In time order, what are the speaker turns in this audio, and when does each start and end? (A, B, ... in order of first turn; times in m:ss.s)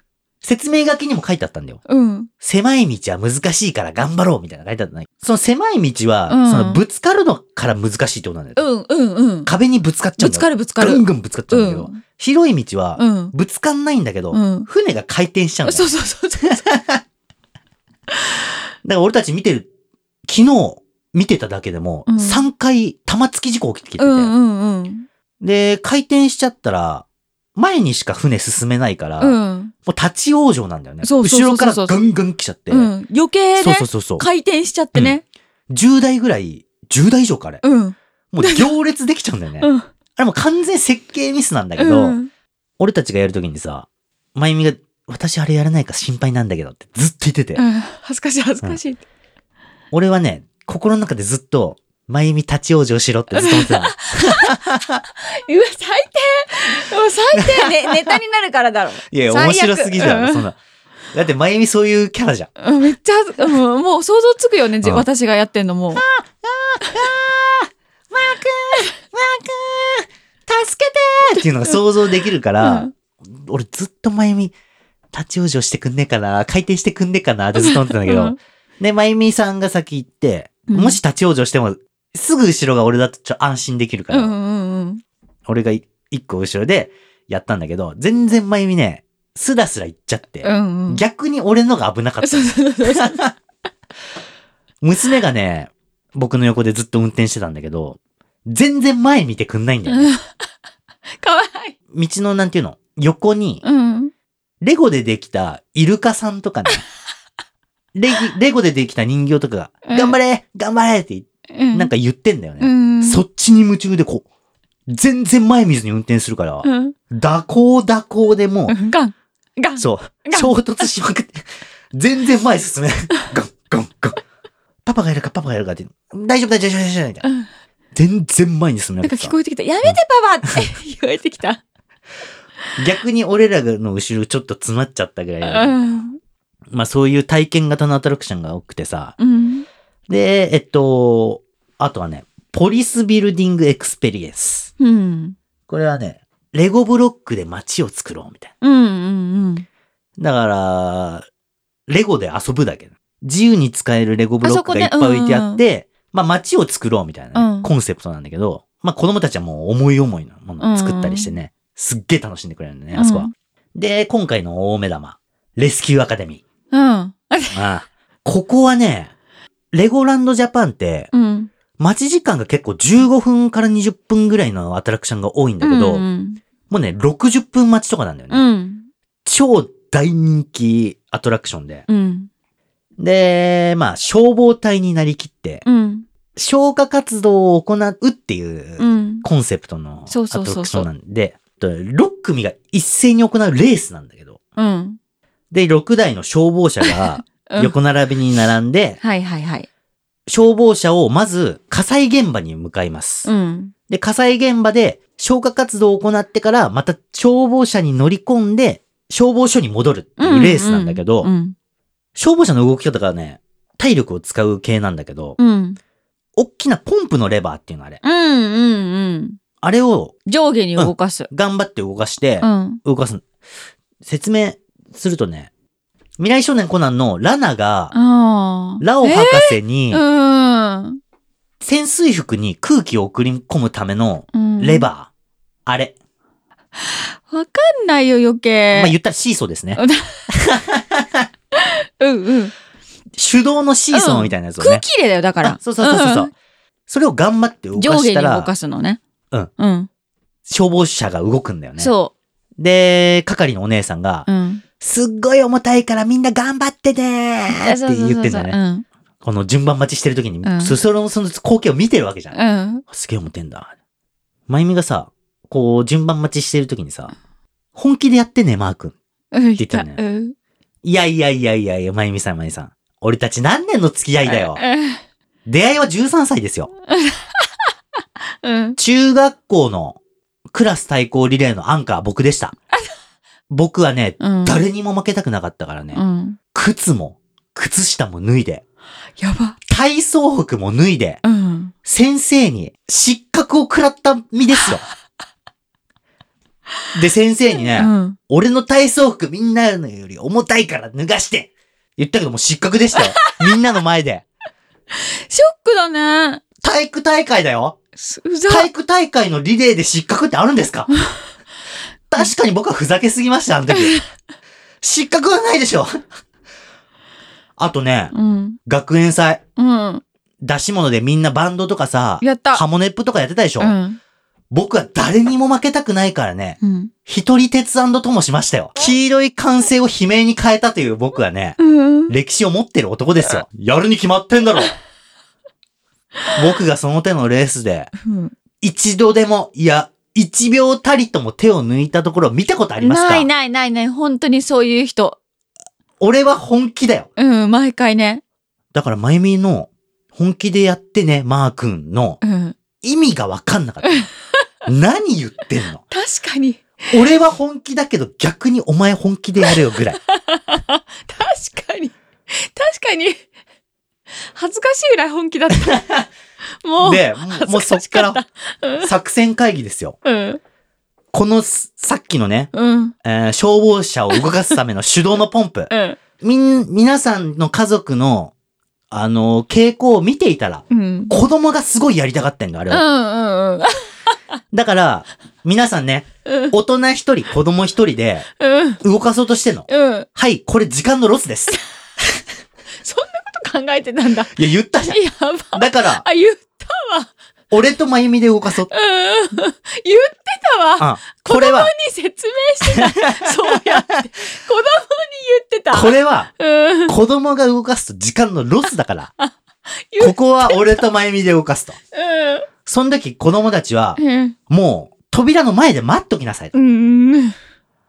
0:00.4-0:01.8 A
0:01.9-0:02.3 B
0:02.4-0:08.6 A
0:06.3-0:06.8 B
0:08.6-0:09.5 B
0:09.5-0:15.9 A
0:10.2-0:12.0 B
0:13.0-0:13.3 B
0:14.3-0:14.7 B
0:15.6-0:16.6 B
0:16.4-0:17.0 A
0:18.8-0:19.7 A
0:20.2-0:24.3 A
0:22.1-0:22.5 B
0:24.0-0:25.0 B
0:25.4-0:32.9 A
0:29.2-0:29.7 B
0:31.0-0:32.0 B
0:32.7-0:35.2 B
0:33.6-0:34.3 A
0:35.7-0:37.6 A
0:37.6-0:38.7 B
0:38.3-0:42.2 A
0:39.6-0:39.9 B
0:41.8-0:42.3 B
0:42.8-0:47.6 A
0:47.6-0:49.0 B
0:49.9-0:55.0 A
0:53.3-0:54.6 B
0:55.2-1:00.5 B
0:57.4-0:58.1 A
0:59.1-1:00.6 A
1:01.1-1:02.5 A
1:02.6-1:06.0 B
1:06.0-1:14.5 A
1:11.3-1:11.8 B
1:12.6-1:12.9 B
1:15.1-1:24.3 A
1:17.6-1:18.4 B
1:20.7-1:21.0 B
1:24.1-1:25.0 B
1:25.5-1:33.3 A
1:30.4-1:31.0 B
1:32.2-1:33.2 B
1:34.8-1:40.1 A
1:39.9-1:40.3 B
1:41.2-1:41.8 B
1:41.9-1:43.6 A
1:43.6-1:44.1 B
1:44.6-1:46.9 A
1:48.0-1:54.2 A
1:49.9-1:50.2 B
1:51.5-1:51.9 B
1:52.6-1:53.2 B
1:54.9-1:58.8 A
1:56.6-1:57.0 B
1:58.7-2:00.9 B
1:59.8-2:04.2 A
2:04.9-2:07.2 A
2:07.2-2:07.5 B
2:08.0-2:10.0 A
2:09.0-2:11.6 B
2:12.8-2:15.8 A
2:15.4-2:16.2 B
2:16.7-2:19.2 A
2:19.2-2:19.7 B
2:20.1-2:24.7 A
2:24.8-2:25.4 B
2:25.7-2:28.5 A
2:28.6-2:29.6 B
2:30.2-2:31.2 A
2:31.9-2:46.4 A
2:34.4-2:35.6 B
2:37.4-2:37.7 B
2:40.6-2:41.3 B
2:43.0-2:43.3 B
2:46.7-2:47.6 B
2:47.5-2:49.1 A
2:49.7-2:51.1 A
2:51.1-2:51.5 B
2:51.8-2:56.0 A
2:55.6-2:56.4 B
2:56.7-2:58.5 A
2:58.3-2:58.9 B
2:59.2-3:01.8 A
3:01.9-3:02.3 B
3:03.0-3:05.6 A
3:05.6-3:06.0 B
3:06.4-3:14.4 A
3:08.8-3:09.2 B
3:10.1-3:10.9 B
3:14.6-3:15.0 B
3:15.5-3:19.0 A
3:16.8-3:17.7 B
3:19.0-3:19.7 B
3:20.3-3:23.3 A
3:23.2-3:23.7 B
3:23.9-3:31.3 A
3:30.2-3:31.5 B
3:32.2-3:35.4 A
3:35.4-3:35.8 B
3:36.4-3:38.0 A
3:38.0-3:39.4 B
3:39.6-3:40.1 A
3:40.2-3:41.3 B
3:40.8-3:43.2 A
3:42.4-3:42.8 B
3:44.0-3:45.5 A
3:46.2-3:48.0 A
3:47.9-3:51.0 B
3:48.8-3:50.0 A
3:51.6-3:55.1 A
3:54.3-3:54.9 B
3:55.6-3:56.0 A
3:56.8-3:59.0 B
3:58.7-4:01.3 A
3:59.8-4:00.3 B
4:01.5-4:02.5 B
4:03.2-4:04.8 A
4:03.9-4:06.3 B
4:05.4-4:06.3 A
4:06.9-4:08.5 A
4:07.8-4:09.0 B
4:09.6-4:09.9 B
4:10.5-4:11.9 A
4:11.8-4:12.1 B
4:12.6-4:14.3 A
4:14.3-4:14.6 B
4:14.8-4:18.6 A
4:17.6-4:18.9 B
4:19.2-4:23.7 A
4:20.4-4:20.8 B
4:22.3-4:22.8 B
4:24.5-4:27.1 A
4:27.8-4:29.0 A
4:29.3-4:30.4 B
4:29.6-4:30.0 A
4:30.8-4:34.6 A
4:34.2-4:35.0 B
4:35.5-4:36.7 A
4:36.9-4:37.7 B
4:38.4-4:38.8 B
4:38.8-4:40.0 A
4:40.5-4:42.6 A
4:43.5-4:46.0 A
4:44.2-4:44.6 B
4:45.9-4:46.4 B
4:46.5-4:48.6 A
4:49.2-4:49.6 B
4:49.7-4:51.2 A
4:51.2-4:51.7 B
4:51.8-4:54.9 A
4:56.9-5:04.2 A
4:57.8-4:58.2 B
5:03.0-5:03.6 B
5:04.9-5:06.4 B
5:06.6-5:07.8 A
5:08.0-5:08.7 B
5:08.5-5:10.9 A
5:12.1-5:14.0 A
5:13.7-5:14.0 B
5:14.8-5:16.0 A
5:17.6-5:19.4 A
5:18.1-5:18.6 B
5:19.6-5:20.0 B
5:20.4-5:23.7 A
5:22.2-5:22.6 B
5:23.6-5:24.0 B
5:24.5-5:31.6 A
5:26.6-5:26.9 B
5:31.6-5:32.1 B
5:32.1-5:34.8 A
5:36.3-5:37.9 A
5:38.0-5:38.3 B
5:38.6-5:43.3 A
5:42.8-5:45.2 B
5:46.0-5:47.1 A
5:47.2-5:48.2 B
5:48.7-5:52.2 A
5:52.2-5:52.6 B
5:52.8-5:54.1 A
5:53.8-5:54.4 B
5:54.6-5:55.8 A
5:55.9-5:57.0 B
5:56.9-6:00.0 A
5:59.4-6:03.2 B
6:04.2-6:05.8 B
6:05.6-6:06.1 A
6:06.6-6:08.9 B
6:06.8-6:08.2 A
6:08.8-6:10.0 A
6:10.0-6:10.4 B
6:11.1-6:12.5 A
6:12.5-6:13.0 B
6:13.0-6:18.3 A
6:15.7-6:16.0 B
6:18.9-6:22.8 A
6:20.7-6:21.1 B
6:22.7-6:24.1 B
6:24.5-6:28.3 A
6:26.2-6:26.5 B
6:28.4-6:28.8 B
6:28.8-6:31.6 A
6:29.7-6:30.1 B
6:31.5-6:32.0 B
6:32.8-6:37.1 B
6:34.3-6:35.0 A
6:35.5-6:36.0 A
6:37.5-6:38.7 A
6:38.7-6:47.0 B
6:40.8-6:41.7 A
6:42.6-6:44.0 A
6:45.7-6:46.3 A
6:46.9-6:49.1 A
6:49.9-6:50.9 B
6:50.0-6:51.8 A
6:51.9-6:52.5 B
6:52.6-6:56.5 A
6:54.0-6:54.4 B
6:56.5-6:57.4 B